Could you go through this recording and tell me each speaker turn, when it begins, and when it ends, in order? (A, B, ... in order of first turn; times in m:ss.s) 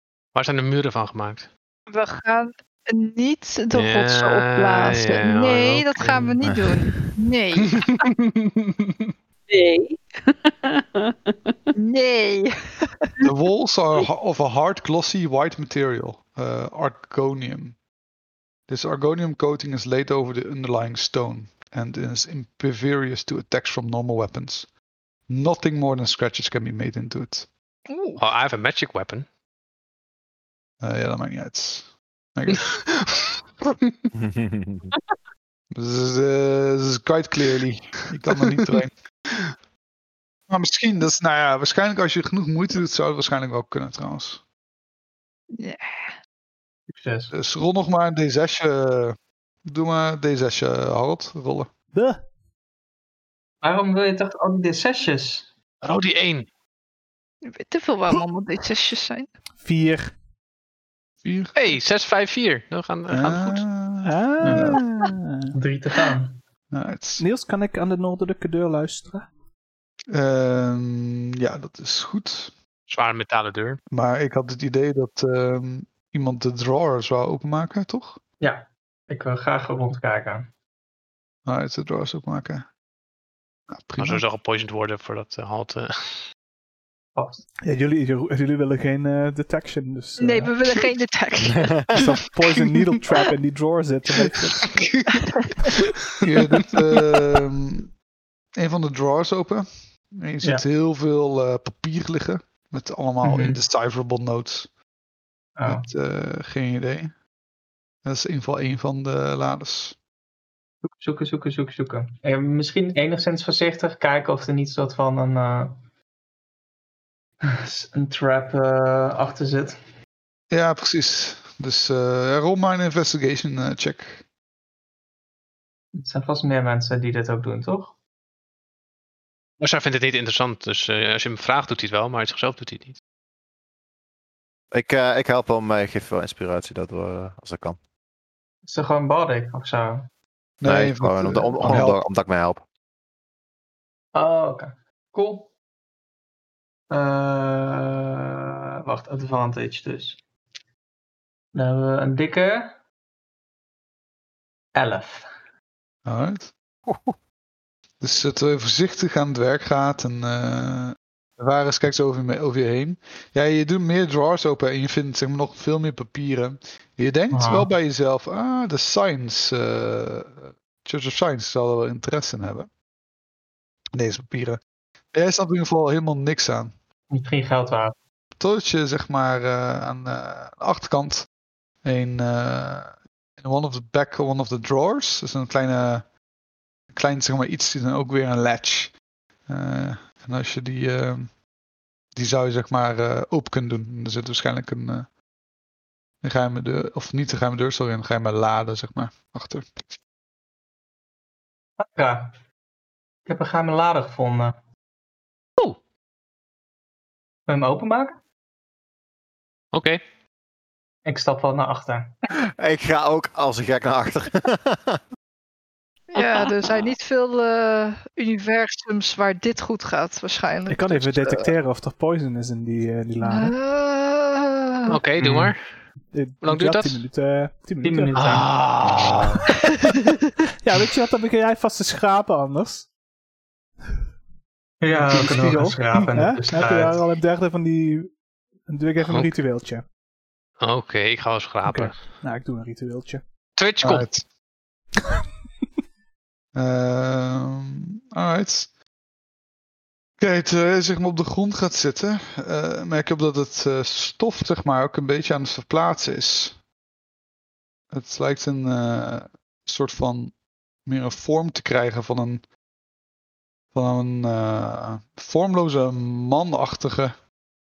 0:00.3-0:01.5 A
0:01.9-0:07.8 B
0:03.7-0:06.6 A
0:07.6-0:08.9 A
0:09.5-0:11.7 C
0:11.8-0:13.1 B
0:13.2-0:17.8 D
0:18.7-0:24.7 D
0:25.3-0:27.5 D
0:27.9-0:28.2 B
0:28.2-0:29.2 A
0:30.8-0:32.7 D
0:32.6-0:33.0 A
0:34.1-0:34.9 E
0:35.7-0:38.9 D
0:40.5-0:44.4 D
0:45.5-0:46.1 B
0:46.9-0:47.3 F
0:47.3-0:51.7 D
0:51.9-0:52.2 G
0:53.6-0:55.5 F
0:55.8-0:56.5 A
0:57.4-0:59.3 B
0:59.6-1:00.1 G
1:01.2-1:01.5 D
1:01.6-1:03.6 A
1:03.1-1:04.8 D
1:04.0-1:05.5 G
1:04.4-1:04.7 F
1:05.5-1:06.4 F
1:06.7-1:07.2 D
1:07.2-1:09.3 G
1:10.1-1:12.5 D
1:12.9-1:13.8 A
1:13.9-1:18.2 D
1:18.4-1:20.5 F
1:21.4-1:22.6 D
1:23.7-1:24.2 D
1:24.0-1:26.2 A
1:27.1-1:27.4 F
1:27.6-1:30.5 G
1:30.2-1:31.7 B
1:31.5-1:32.0 E
1:31.9-1:34.6 G
1:34.7-1:35.2 D
1:36.2-1:37.9 D
1:38.6-1:44.7 D
1:43.2-1:43.6 F
1:45.6-1:45.8 F
1:45.6-1:47.1 D
1:48.0-1:50.0 D
1:50.8-1:55.8 F
1:57.4-1:59.8 F
2:00.5-2:04.2 D
2:06.0-2:07.9 F
2:09.6-2:13.0 A
2:14.7-2:17.8 E
2:18.6-2:20.1 F
2:20.6-2:22.0 D
2:20.6-2:22.6 E
2:24.1-2:25.5 F
2:26.9-2:30.2 F
2:31.5-2:32.8 F
2:34.7-2:35.3 F
2:36.0-2:36.5 D
2:36.9-2:37.1 E
2:38.0-2:52.7 D
2:47.3-2:47.7 F
2:53.9-2:54.6 D
2:55.1-2:56.7 D
2:57.1-2:57.9 F
2:58.4-3:01.3 D
3:01.8-3:06.0 D
3:06.9-3:11.4 D
3:12.1-3:15.1 D
3:16.2-3:19.9 D
3:21.8-3:22.4 F
3:23.2-3:24.5 F
3:27.5-3:28.2 F
3:29.7-3:30.0 A
3:31.0-3:32.1 F
3:32.3-3:35.0 E
3:36.1-3:41.5 B
3:40.7-3:43.5 G
3:43.2-3:45.0 B
3:44.9-3:45.6 A
3:45.2-3:45.5 F
3:46.1-3:48.2 G
3:46.4-3:47.0 A
3:47.8-3:48.5 F
3:48.1-3:49.5 A
3:49.7-3:50.1 B
3:50.6-3:52.9 G
3:54.8-3:57.0 F
3:55.0-3:58.1 G
3:58.7-3:59.8 G
3:59.0-3:59.3 A
4:00.6-4:02.0 A
4:01.6-4:03.2 G
4:03.6-4:04.1 A
4:03.8-4:04.2 D
4:06.5-4:08.7 D
4:10.2-4:16.6 D
4:17.9-4:20.3 D
4:20.8-4:22.4 D
4:23.7-4:27.1 D